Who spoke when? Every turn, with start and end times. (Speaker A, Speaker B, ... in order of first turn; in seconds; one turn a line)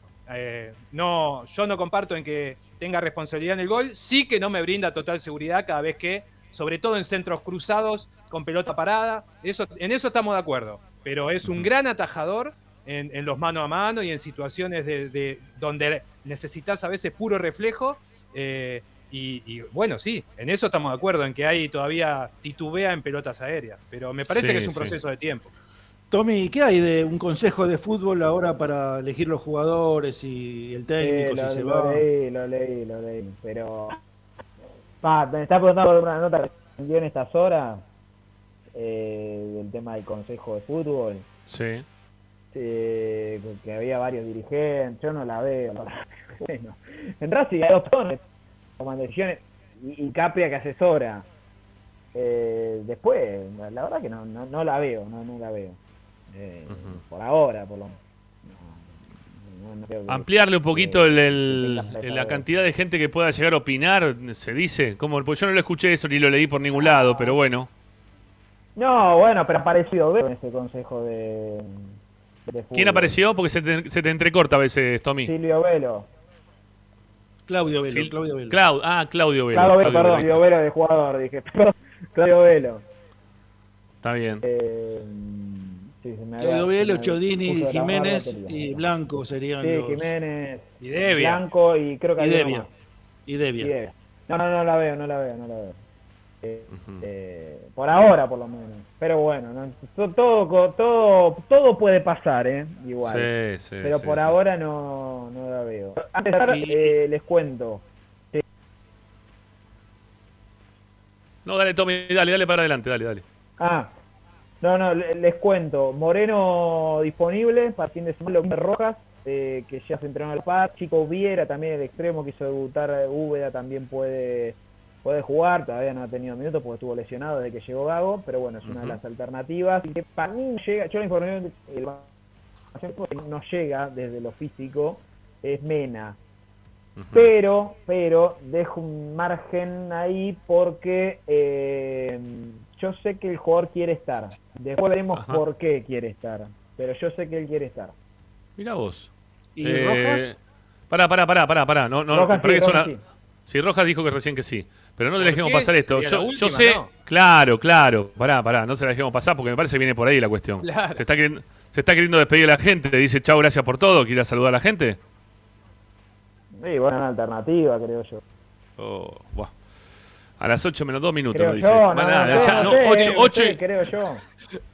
Speaker A: 0.3-25.5
Speaker B: 24.3-25.0
Speaker C: 26.1-32.0
Speaker D: 31.0-34.0
Speaker D: 35.0-37.8
Speaker D: 38.7-41.2
Speaker B: 41.5-41.9
Speaker D: 42.5-48.2
Speaker D: 48.8-51.3
Speaker D: 52.1-55.8
Speaker D: 56.3-62.4
Speaker B: 56.7-57.0
Speaker B: 60.1-67.7
Speaker D: 66.8-67.4
Speaker D: 68.8-71.9
Speaker D: 72.5-73.1
Speaker B: 72.7-75.3
Speaker D: 75.2-76.1
Speaker C: 77.5-78.6
Speaker B: 77.8-80.4
Speaker D: 79.5-82.8
Speaker B: 84.0-84.4
Speaker D: 84.4-88.8
Speaker C: 86.4-90.1
Speaker D: 89.6-92.7
Speaker A: 90.8-91.4
Speaker C: 92.2-92.7
Speaker C: 93.3-93.7
Speaker D: 93.6-95.8
Speaker D: 96.4-103.3
Speaker B: 96.7-97.0
Speaker B: 103.0-104.4
Speaker D: 103.8-108.4
Speaker C: 106.4-106.9
Speaker B: 111.5-113.2
Speaker D: 113.6-113.9
Speaker D: 114.6-132.1
Speaker B: 128.6-129.0
Speaker D: 132.7-136.2
Speaker B: 137.0-137.3
Speaker D: 137.1-147.9
Speaker B: 145.2-145.4
Speaker B: 148.6-149.1
Speaker C: 149.6-150.3
Speaker B: 149.6-150.4
Speaker B: 150.9-152.9
Speaker D: 152.1-153.0
Speaker B: 153.5-165.0
Speaker A: 155.2-156.9
Speaker A: 160.6-161.0
Speaker D: 166.6-168.2
Speaker B: 168.8-169.5
Speaker B: 170.4-173.6
Speaker D: 171.3-174.2